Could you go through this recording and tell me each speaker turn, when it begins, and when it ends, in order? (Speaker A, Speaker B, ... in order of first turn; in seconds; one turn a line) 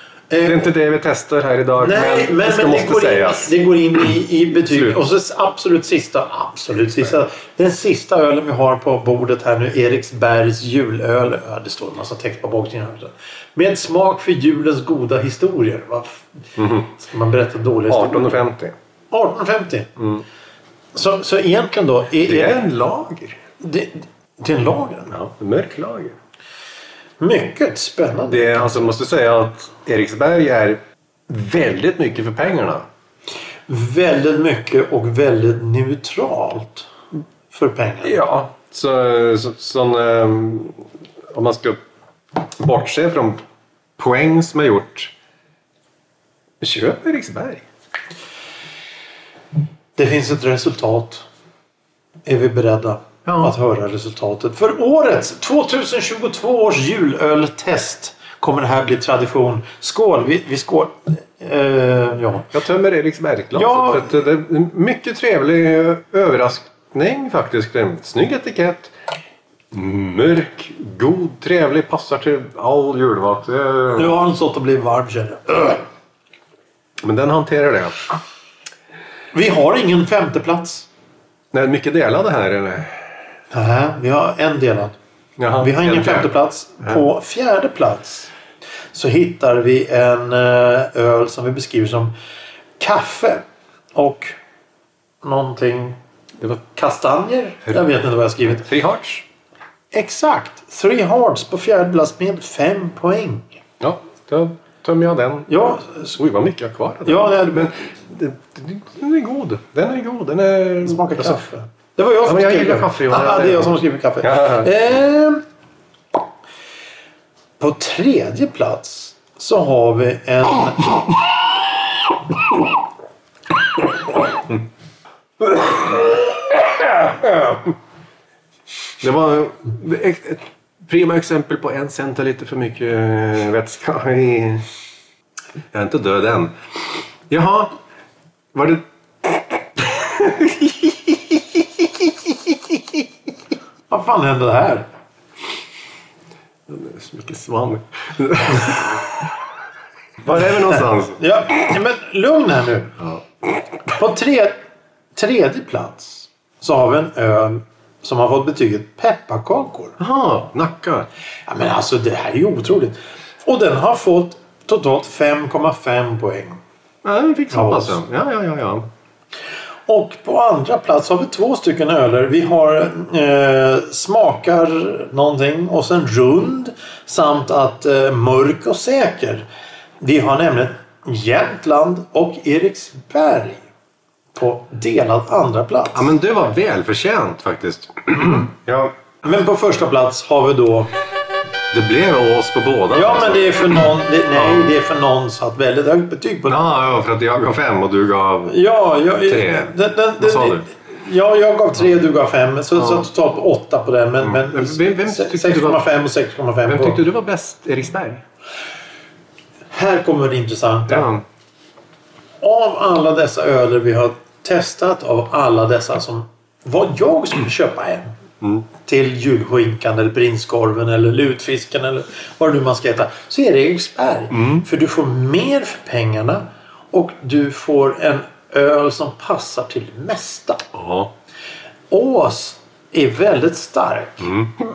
Speaker A: 0.3-0.7
Speaker B: 0.4-3.5
Speaker A: 1.8-18.4
Speaker B: 4.5-5.0
Speaker B: 16.6-16.9
Speaker B: 17.9-18.7
Speaker A: 19.1-19.9
Speaker A: 20.9-22.6
Speaker B: 22.2-23.4
Speaker A: 23.6-25.1
Speaker B: 25.1-26.2
Speaker A: 27.2-28.9
Speaker B: 28.3-32.9
Speaker A: 33.7-36.9
Speaker A: 37.5-38.2
Speaker B: 38.0-41.8
Speaker B: 42.4-43.4
Speaker B: 44.0-45.1
Speaker B: 46.6-47.6
Speaker A: 50.0-51.2
Speaker A: 52.2-62.5
Speaker B: 53.2-53.5
Speaker B: 62.5-68.9
Speaker A: 63.5-64.1
Speaker B: 69.7-74.2
Speaker A: 73.9-75.8
Speaker B: 77.0-78.0
Speaker A: 79.3-80.9
Speaker B: 81.5-83.1
Speaker A: 83.5-84.9
Speaker B: 85.4-86.3
Speaker A: 85.6-88.3
Speaker A: 88.9-92.1
Speaker A: 92.8-93.4
Speaker A: 93.9-94.4
Speaker A: 95.2-98.7
Speaker B: 98.6-99.2
Speaker A: 99.9-103.5
Speaker B: 103.8-105.5
Speaker A: 105.5-106.2
Speaker B: 106.1-111.4
Speaker A: 107.0-107.9
Speaker A: 110.8-115.4
Speaker B: 112.2-114.7
Speaker A: 117.6-121.2
Speaker B: 125.4-127.7
Speaker B: 129.0-134.7
Speaker B: 135.7-137.7
Speaker B: 138.5-143.0
Speaker A: 143.9-144.9
Speaker B: 146.7-149.3
Speaker B: 150.2-151.3
Speaker A: 151.1-153.0
Speaker B: 153.0-153.5
Speaker A: 153.9-154.6
Speaker A: 155.2-160.0
Speaker B: 160.0-161.1
Speaker A: 161.5-166.6
Speaker B: 167.0-168.9
Speaker A: 167.5-168.1
Speaker A: 169.9-179.4
Speaker A: 180.0-183.7
Speaker A: 184.3-186.1
Speaker B: 185.9-188.9
Speaker A: 189.2-190.9
Speaker B: 191.7-193.7
Speaker A: 192.9-196.6
Speaker B: 194.3-194.7
Speaker B: 196.5-198.6
Speaker A: 198.4-207.0
Speaker B: 199.2-200.6
Speaker B: 202.7-203.1
Speaker B: 204.2-205.9
Speaker B: 206.7-208.2
Speaker A: 209.7-211.2
Speaker B: 210.9-211.2
Speaker A: 212.4-218.1
Speaker A: 218.8-230.7
Speaker B: 224.3-224.7
Speaker B: 230.7-231.1
Speaker A: 231.9-234.3
Speaker B: 234.2-234.5